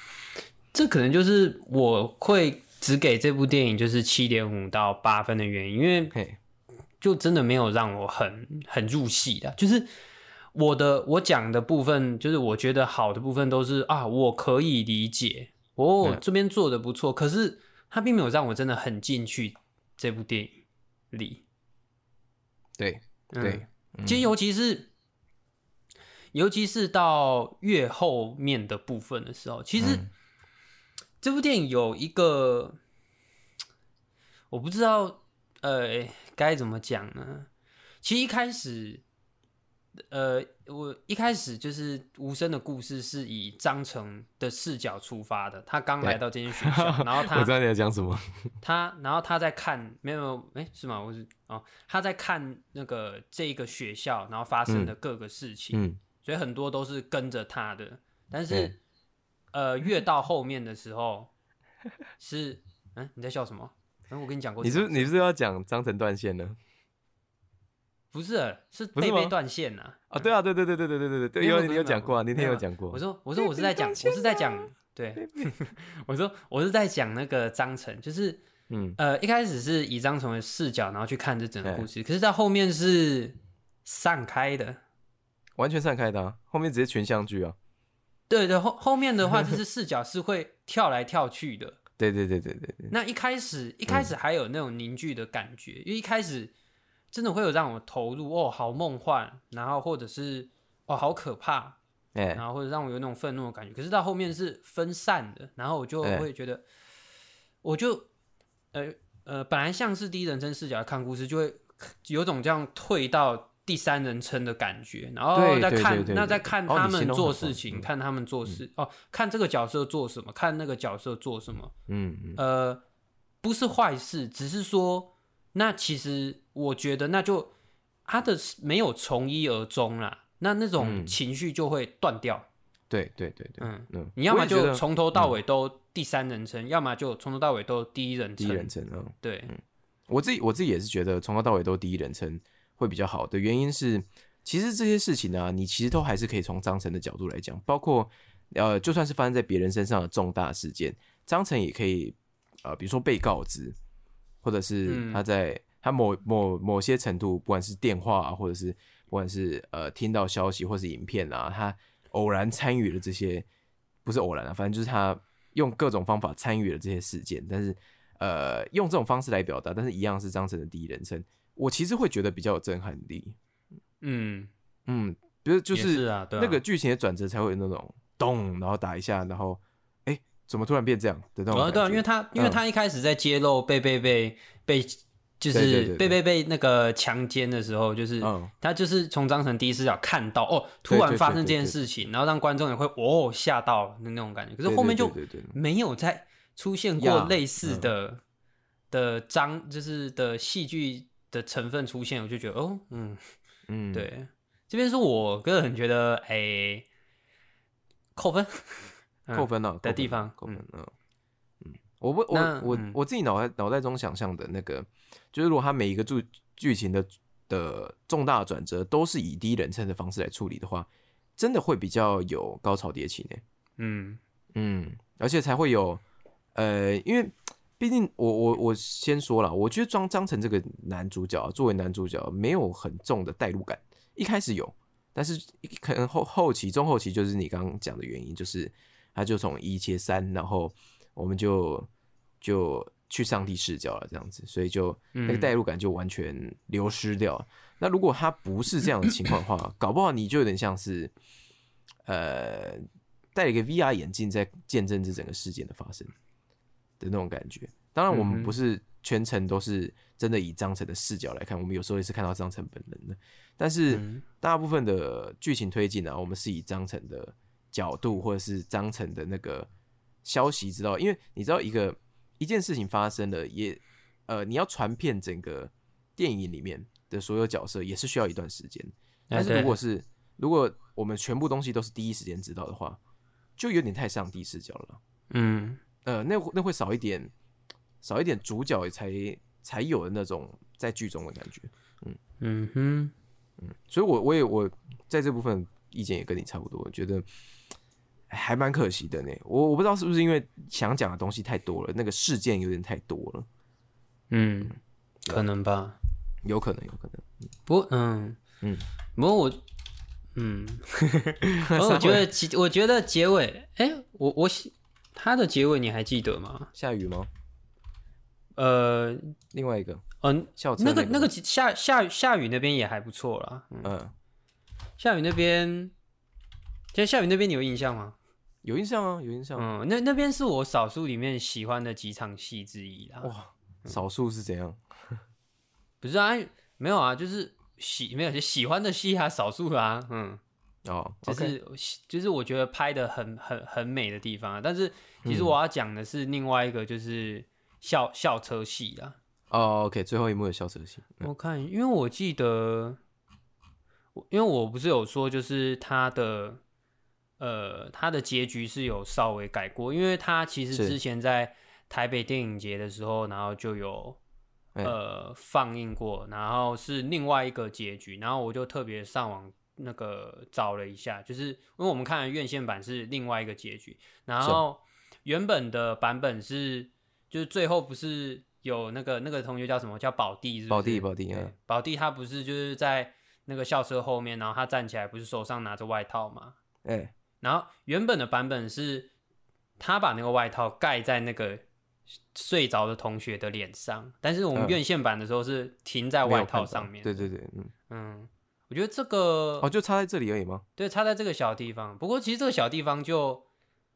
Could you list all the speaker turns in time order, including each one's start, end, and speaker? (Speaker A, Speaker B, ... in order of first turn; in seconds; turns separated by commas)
Speaker A: 0.7-6.2, Speaker B: 6.1-6.4, Speaker A: 7.0-9.9, Speaker A: 10.5-21.4, Speaker B: 22.8-24.3, Speaker A: 23.3-24.9, Speaker A: 26.3-30.1, Speaker B: 29.8-30.1, Speaker A: 31.2-32.8, Speaker A: 34.5-37.5, Speaker A: 38.0-39.0, Speaker A: 40.1-47.5, Speaker B: 46.0-48.2, Speaker A: 48.6-58.8, Speaker B: 54.7-54.9, Speaker B: 55.7-56.0, Speaker B: 58.5-58.8, Speaker A: 59.5-61.3, Speaker A: 62.2-65.1, Speaker B: 64.6-66.6, Speaker A: 68.1-70.3, Speaker B: 69.0-69.3, Speaker B: 70.1-74.7, Speaker A: 71.4-78.4, Speaker B: 75.2-75.5, Speaker B: 78.7-79.0, Speaker A: 79.0-84.8, Speaker B: 85.6-87.6, Speaker A: 88.3-91.8, Speaker B: 92.0-92.9, Speaker A: 92.9-96.5, Speaker A: 97.1-101.8, Speaker B: 102.2-102.4, Speaker A: 102.3-106.6, Speaker A: 107.6-108.1, Speaker A: 108.7-121.7, Speaker B: 115.3-117.9, Speaker B: 121.9-122.4, Speaker A: 122.4-122.8, Speaker A: 123.4-127.5, Speaker A: 128.1-132.5, Speaker B: 130.8-131.2, Speaker B: 132.9-135.4, Speaker A: 133.6-139.5, Speaker B: 138.4-153.8, Speaker B: 154.4-163.5, Speaker A: 154.9-155.2, Speaker B: 164.1-173.4, Speaker A: 174.0-174.5, Speaker B: 174.9-182.6, Speaker A: 175.7-176.6, Speaker A: 181.5-198.2, Speaker B: 185.5-186.2, Speaker B: 188.2-188.5, Speaker B: 190.9-191.8, Speaker B: 194.7-195.6, Speaker B: 197.0-197.9, Speaker A: 198.9-203.2, Speaker B: 203.7-204.1, Speaker A: 203.9-206.9, Speaker A: 208.2-210.6, Speaker B: 209.3-210.9, Speaker B: 211.6-223.4, Speaker A: 212.3-213.0, Speaker A: 223.8-224.2, Speaker B: 224.5-226.0, Speaker B: 226.6-241.9, Speaker B: 242.4-251.1, Speaker A: 245.1-245.5, Speaker B: 252.1-252.8, Speaker B: 253.3-256.1, Speaker B: 257.0-269.7, Speaker A: 258.1-258.6, Speaker A: 263.9-264.2, Speaker B: 270.2-283.0, Speaker A: 279.3-279.8, Speaker B: 283.6-285.0, Speaker A: 285.3-285.8, Speaker B: 286.1-287.3, Speaker B: 288.0-292.2, Speaker A: 292.4-293.1, Speaker B: 293.6-297.2, Speaker B: 298.3-303.5, Speaker A: 304.3-304.8, Speaker A: 305.3-306.0, Speaker B: 306.4-307.3, Speaker A: 307.7-308.4, Speaker A: 309.2-309.6, Speaker A: 310.4-316.7, Speaker B: 311.5-312.3, Speaker B: 316.8-317.3, Speaker A: 318.6-319.3, Speaker B: 319.5-320.0, Speaker A: 320.2-323.9, Speaker B: 320.6-321.3, Speaker B: 323.8-324.1, Speaker A: 325.0-325.9, Speaker A: 326.9-328.2, Speaker B: 328.6-329.7, Speaker A: 329.6-333.3, Speaker B: 333.2-334.8, Speaker A: 336.0-340.4, Speaker B: 340.9-341.6, Speaker A: 341.2-349.2, Speaker B: 345.2-345.6, Speaker B: 349.5-351.3, Speaker A: 351.2-353.0, Speaker A: 354.1-356.6, Speaker A: 357.4-364.2, Speaker A: 364.8-386.6, Speaker B: 380.7-381.5, Speaker B: 386.8-387.1, Speaker A: 387.4-389.1, Speaker A: 389.8-391.6, Speaker A: 392.3-397.3, Speaker B: 396.2-397.7, Speaker A: 397.9-399.7, Speaker B: 399.6-400.6, Speaker A: 400.8-403.4